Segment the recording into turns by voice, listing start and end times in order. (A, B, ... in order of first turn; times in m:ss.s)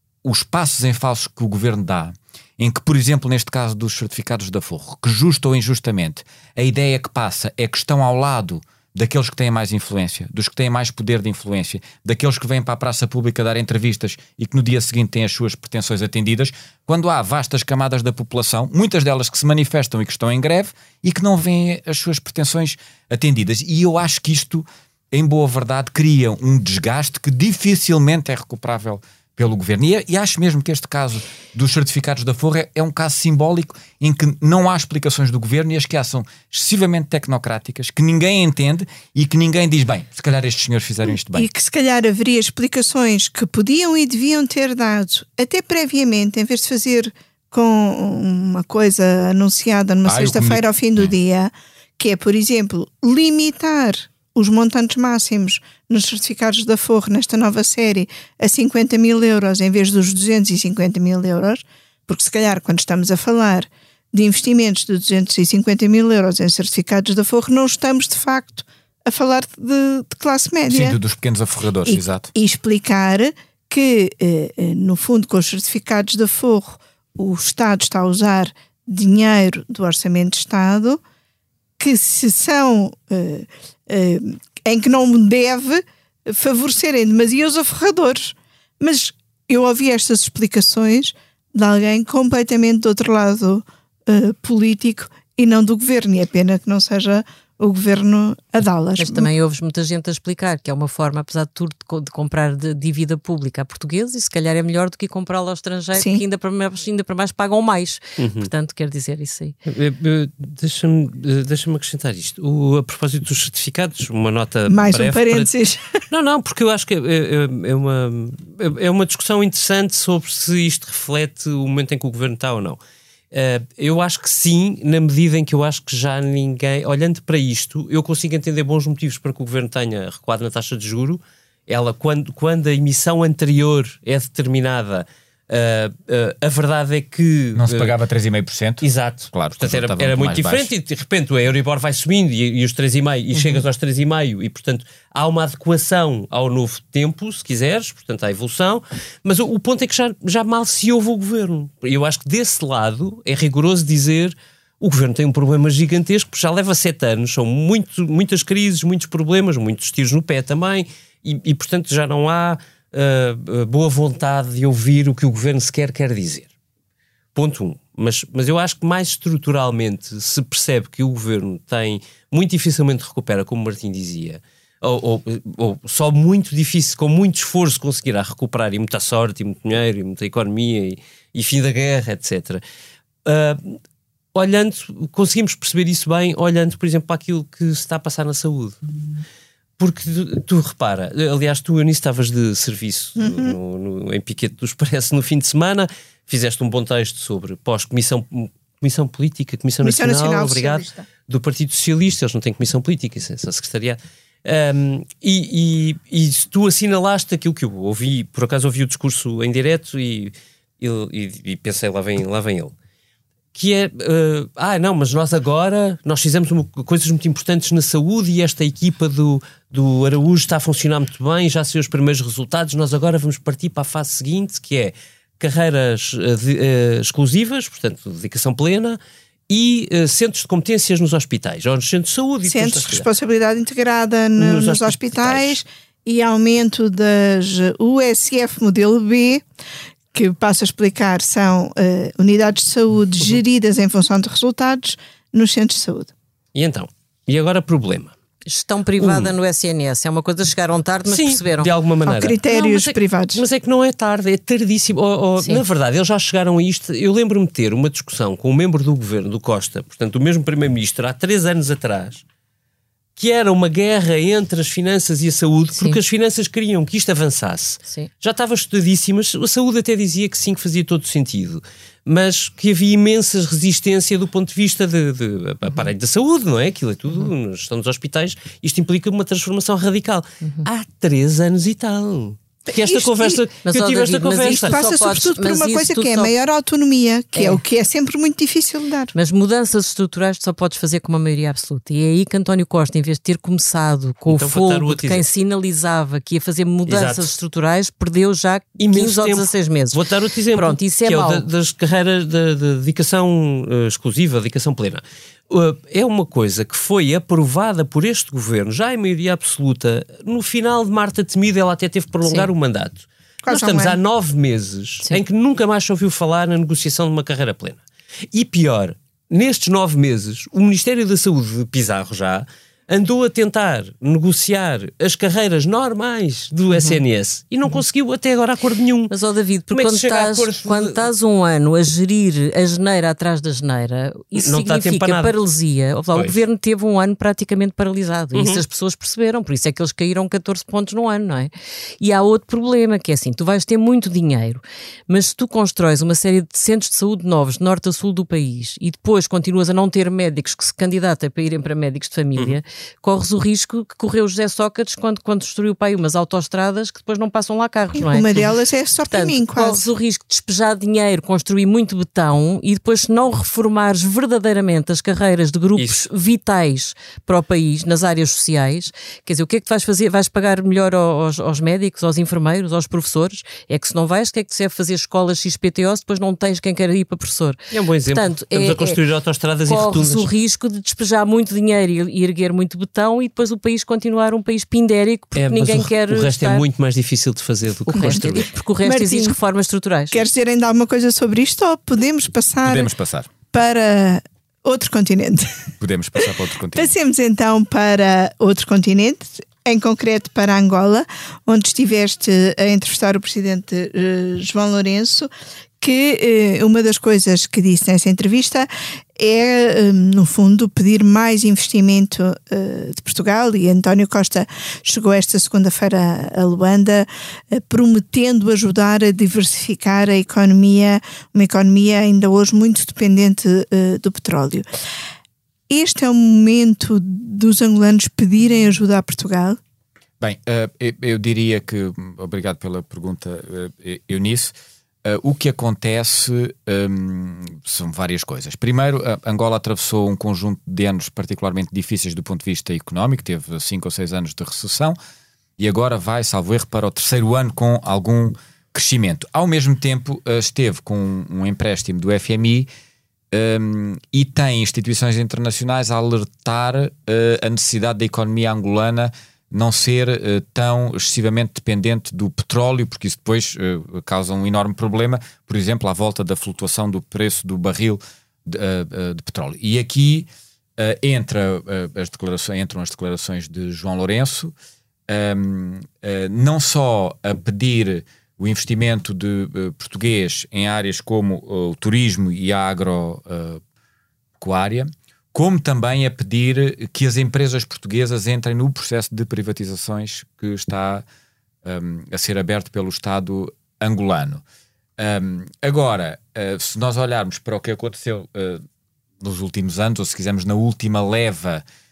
0:00.2-0:41.5 A
0:41.3-1:11.0 B
0:50.0-0:51.1 A
1:10.7-1:12.3 A
1:11.8-1:21.0 B
1:21.8-1:39.3 B
1:39.0-1:49.6 C
1:46.0-1:46.2 B
1:48.2-1:48.5 D
1:49.7-1:55.5 D
1:54.7-1:56.0 B
1:56.1-2:02.8 D
2:03.3-2:18.0 D
2:17.6-2:20.7 A
2:18.8-2:46.5 D
2:47.4-3:02.6 D
3:03.2-3:03.8 D
3:04.3-3:08.8 D
3:09.8-3:32.7 D
3:13.2-3:13.6 B
3:19.8-3:21.1 B
3:33.6-3:53.1 D
3:52.5-3:59.4 B
3:54.4-3:55.6 D
4:00.1-4:06.1 B
4:06.5-4:08.1 D
4:08.5-4:11.7 C
4:09.0-4:09.3 D
4:11.1-4:22.2 D
4:12.0-4:13.4 B
4:23.2-4:44.8 D
4:40.4-4:40.7 C
4:42.8-4:43.4 B
4:43.6-4:46.3 C
4:44.4-4:49.1 B
4:47.4-4:47.6 C
4:49.1-5:00.0 C
4:54.3-4:55.3 D
4:56.9-4:57.3 D
4:58.8-5:29.1 D
5:00.5-5:01.5 C
5:13.4-5:14.0 B
5:29.1-5:58.3 C
5:29.7-5:31.1 D
5:34.4-5:35.4 D
5:36.1-5:36.4 D
5:38.3-5:38.6 D
5:58.0-5:59.8 B
5:59.1-6:19.0 C
6:05.8-6:06.0 D
6:17.7-6:20.3 D
6:19.7-6:26.6 C
6:25.4-6:28.5 D
6:27.9-6:30.2 C
6:28.8-6:29.4 B
6:30.1-6:32.9 B
6:32.6-6:33.3 A
6:33.5-6:45.3 B
6:35.8-6:36.9 A
6:45.8-7:04.7 B
7:05.7-7:09.6 B
7:10.2-7:14.5 A
7:15.0-7:25.0 A
7:25.6-7:32.7 A
7:33.3-7:54.5 A
7:55.1-8:03.6 A
8:04.4-8:11.0 A
8:11.6-8:14.4 A
8:15.0-8:18.6 A
8:19.2-8:21.6 A